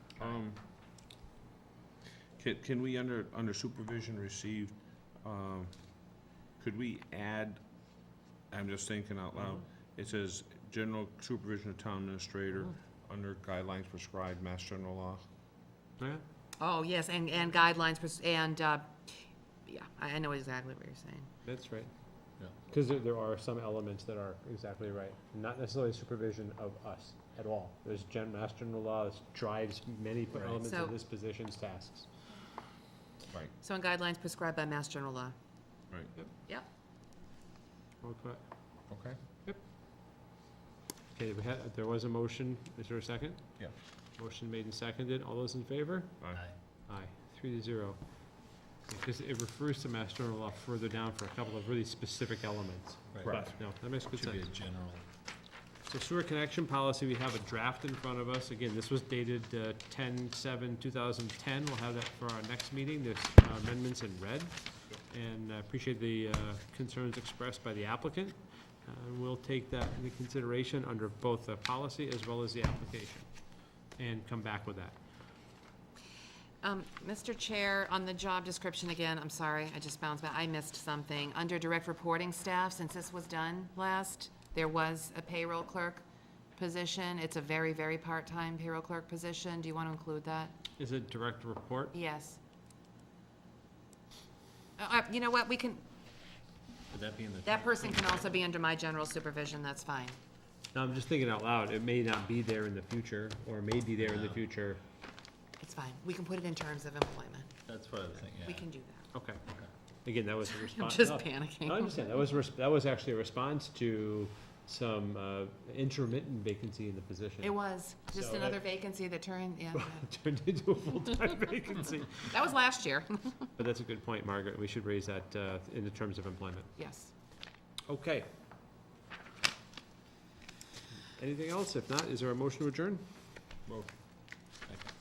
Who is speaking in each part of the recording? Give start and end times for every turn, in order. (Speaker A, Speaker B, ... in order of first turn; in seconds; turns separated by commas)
Speaker A: 0.2-0.6, Speaker A: 2.4-4.7, Speaker A: 5.2-5.7, Speaker A: 6.6-7.6, Speaker A: 8.5-15.2, Speaker B: 16.0-16.2, Speaker C: 16.6-21.3, Speaker B: 21.4-21.9, Speaker B: 22.6-32.1, Speaker C: 30.6-30.9, Speaker C: 33.6-35.4, Speaker B: 38.0-38.4, Speaker A: 38.9-39.2, Speaker B: 41.1-43.6, Speaker B: 44.2-46.2, Speaker D: 46.2-46.6, Speaker B: 46.9-48.0, Speaker B: 48.9-54.5, Speaker D: 53.1-55.1, Speaker B: 55.9-73.3, Speaker B: 74.0-75.0, Speaker C: 76.6-86.0, Speaker C: 86.6-90.6, Speaker B: 90.8-92.0, Speaker C: 91.9-92.4, Speaker C: 94.8-95.8, Speaker D: 96.9-98.3, Speaker C: 97.5-100.2, Speaker B: 100.7-104.8, Speaker D: 104.0-104.4, Speaker C: 105.6-107.7, Speaker D: 107.7-108.7, Speaker C: 108.4-109.1, Speaker B: 109.1-109.4, Speaker B: 110.0-117.6, Speaker C: 110.5-112.0, Speaker C: 117.4-120.1, Speaker B: 118.1-118.6, Speaker B: 119.8-122.4, Speaker C: 122.2-123.5, Speaker B: 123.6-126.7, Speaker C: 126.8-127.1, Speaker B: 127.9-128.3, Speaker B: 131.2-133.0